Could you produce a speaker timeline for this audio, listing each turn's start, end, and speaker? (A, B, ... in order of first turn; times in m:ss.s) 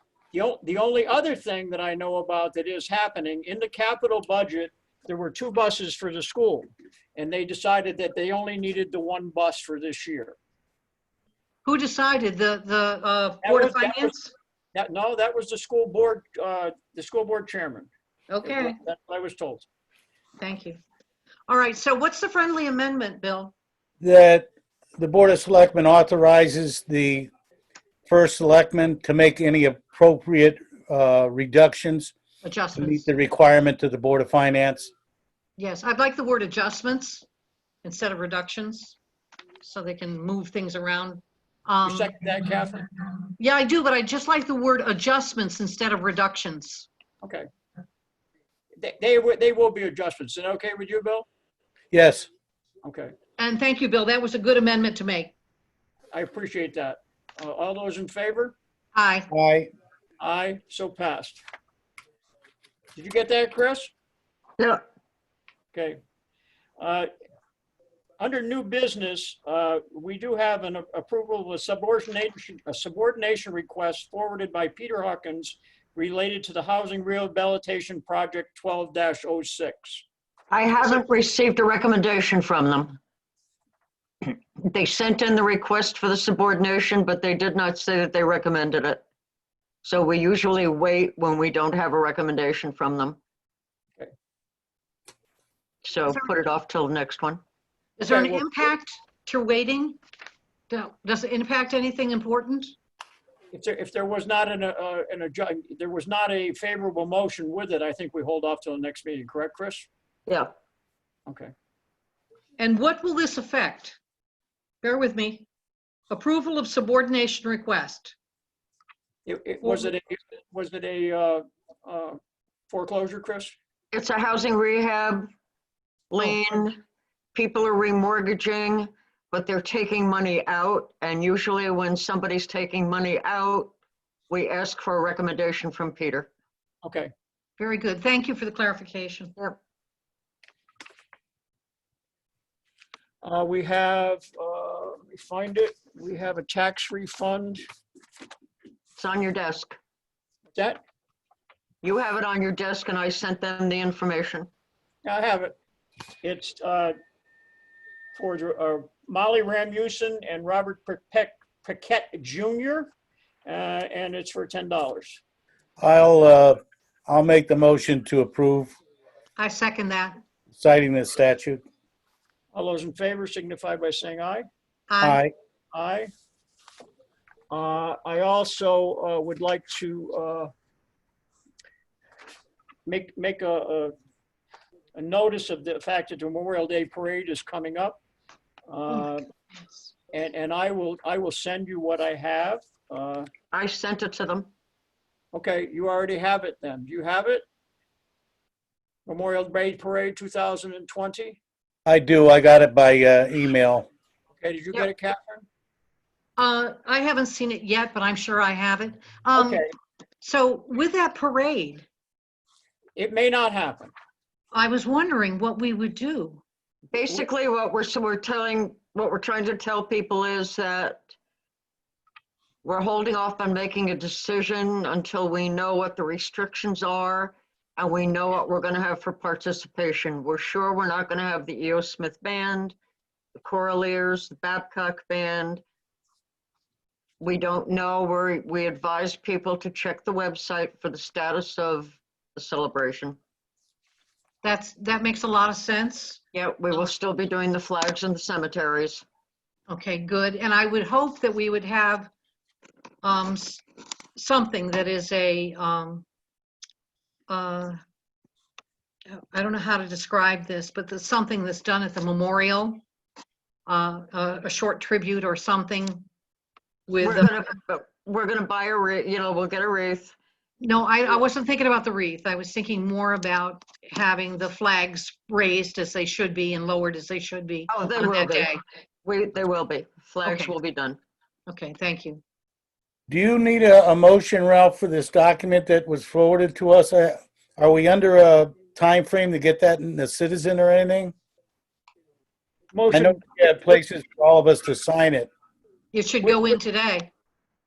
0:00.3-0:10.4 A
0:11.6-0:14.3 B
0:13.4-0:14.1 A
0:14.7-0:17.9 A
0:18.3-0:18.8 B
0:18.4-0:19.7 A
0:20.4-0:20.8 B
0:21.5-0:23.5 B
0:24.0-0:27.3 C
0:28.1-0:32.1 C
0:32.4-0:33.0 B
0:32.8-0:34.9 C
0:35.6-0:37.2 B
0:37.8-0:39.0 B
0:39.6-0:42.1 B
0:41.8-0:42.8 A
0:43.4-0:46.9 B
0:48.8-0:51.3 A
0:51.9-0:52.3 C
0:52.8-0:53.1 A
0:53.4-0:55.3 B
0:56.1-0:58.5 A
0:58.9-0:59.3 B
0:59.3-0:59.7 C
1:00.2-1:01.4 A
1:03.0-1:03.9 A
1:05.7-1:06.0 A
1:06.8-1:07.1 A
1:08.2-1:20.0 A
1:20.5-1:23.0 D
1:24.2-1:29.0 D
1:29.8-1:33.2 D
1:35.8-1:37.4 D
1:38.0-1:40.0 B
1:38.0-1:38.7 A
1:40.7-1:42.7 B
1:43.5-1:49.9 A
1:52.6-1:54.0 B
1:54.8-1:55.4 B
1:56.1-1:58.1 B
1:59.2-2:02.2 A
1:59.6-1:59.9 B
2:02.7-2:03.5 A
2:03.9-2:05.3 D
2:06.1-2:06.8 D
2:07.3-2:13.7 D
2:14.3-2:16.3 D
2:16.8-2:17.1 A
2:17.6-2:19.4 B
2:23.2-2:27.6 A
2:29.0-2:29.8 D
2:30.5-2:30.8 A
2:31.8-2:34.5 D
2:35.0-2:35.5 A
2:36.2-2:36.9 A
2:38.1-2:42.9 A
2:43.4-2:45.2 A
2:45.8-2:48.7 C
2:49.4-2:50.2 B
2:50.5-2:51.6 C
2:52.5-2:54.4 A
2:54.9-2:55.2 B
2:55.0-2:55.3 C
2:55.7-2:56.1 A
2:57.5-3:00.5 A
3:02.8-3:03.9 A
3:04.9-3:08.0 A
3:08.7-3:09.3 A
3:10.1-3:13.3 A
3:13.5-3:14.5 D
3:15.3-3:17.4 A
3:19.0-3:21.4 A
3:21.9-3:23.9 C
3:24.4-3:25.4 A
3:26.4-3:29.6 B
3:29.3-3:29.6 A
3:30.2-3:31.8 B
3:33.0-3:33.9 A
3:34.5-3:36.4 B
3:36.9-3:41.1 D
3:42.6-3:52.7 D
3:53.4-3:55.6 D
3:57.2-4:03.2 D
4:04.4-4:06.2 B
4:06.3-4:09.0 D
4:09.7-4:12.1 B
4:13.0-4:13.6 B
4:14.1-4:16.0 B
4:17.3-4:17.8 B
4:19.1-4:22.8 B
4:23.6-4:26.1 B
4:26.9-4:27.4 B
4:27.0-4:30.1 D
4:30.6-4:38.6 B
4:37.7-4:41.0 D
4:40.2-4:40.5 B
4:41.5-4:42.2 B
4:43.1-4:51.1 C
4:52.7-4:53.2 A
4:52.9-4:55.3 C
4:55.9-4:57.1 B
4:56.2-4:56.6 A